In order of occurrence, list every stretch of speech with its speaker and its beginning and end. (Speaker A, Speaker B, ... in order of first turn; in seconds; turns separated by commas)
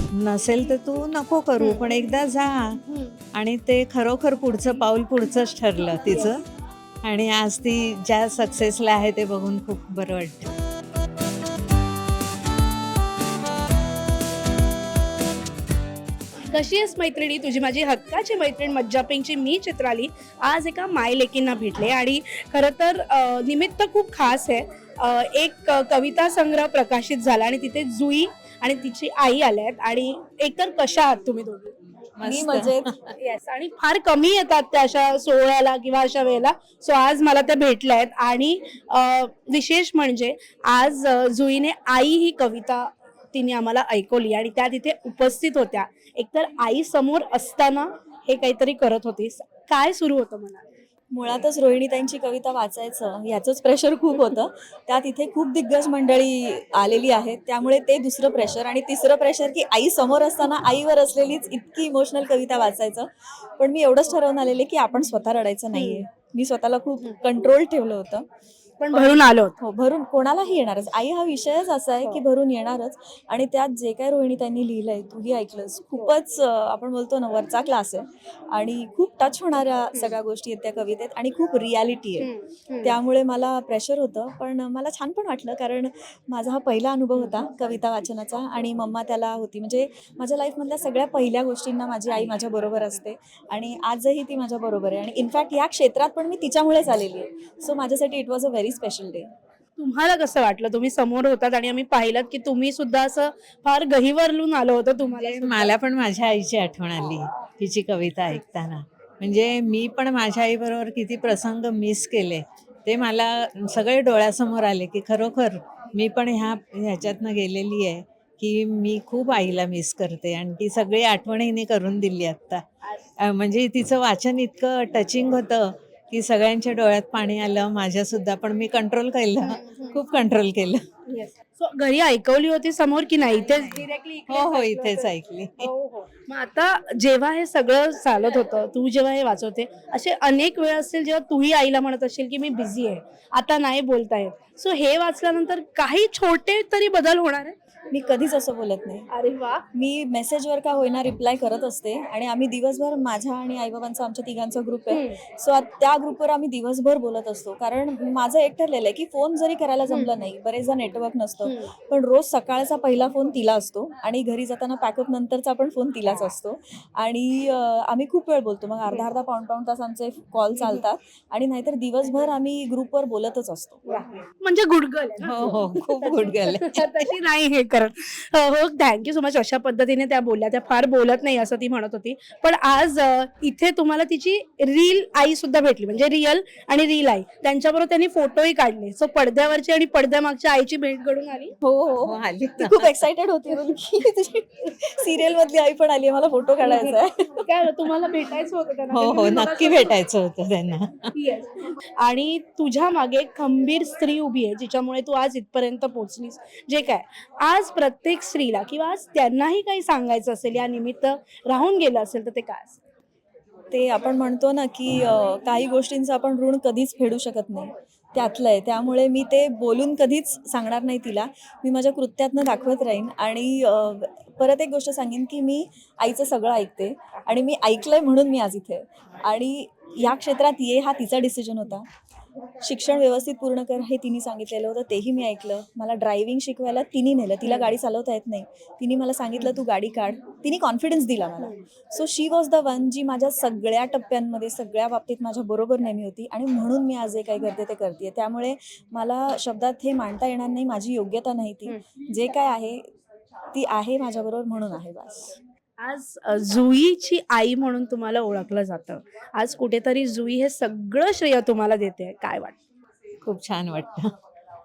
Speaker A: 0.1-2.8, Speaker B: 1.6-1.9, Speaker B: 2.9-3.2, Speaker A: 3.3-6.5, Speaker A: 7.0-10.5, Speaker B: 16.5-31.7, Speaker A: 32.2-33.1, Speaker C: 32.2-32.9, Speaker B: 33.2-50.6, Speaker C: 51.1-68.2, Speaker B: 65.7-66.0, Speaker B: 68.8-69.5, Speaker C: 68.9-82.3, Speaker B: 82.2-83.0, Speaker C: 82.8-99.3, Speaker B: 99.8-105.7, Speaker A: 105.1-122.6, Speaker A: 123.2-130.8, Speaker B: 129.4-130.0, Speaker B: 131.1-147.6, Speaker A: 133.5-135.7, Speaker C: 147.9-149.1, Speaker B: 149.1-149.6, Speaker C: 149.7-173.8, Speaker B: 154.9-155.2, Speaker B: 159.9-160.1, Speaker B: 161.4-161.7, Speaker B: 170.6-170.8, Speaker B: 173.8-191.5, Speaker A: 175.2-177.1, Speaker C: 191.6-197.7, Speaker A: 192.0-193.0, Speaker B: 196.6-199.9, Speaker A: 198.9-201.1, Speaker B: 201.1-212.8, Speaker C: 213.7-231.9, Speaker C: 232.6-252.8, Speaker B: 237.4-237.7, Speaker C: 253.5-255.4, Speaker B: 255.8-262.6, Speaker A: 263.2-264.1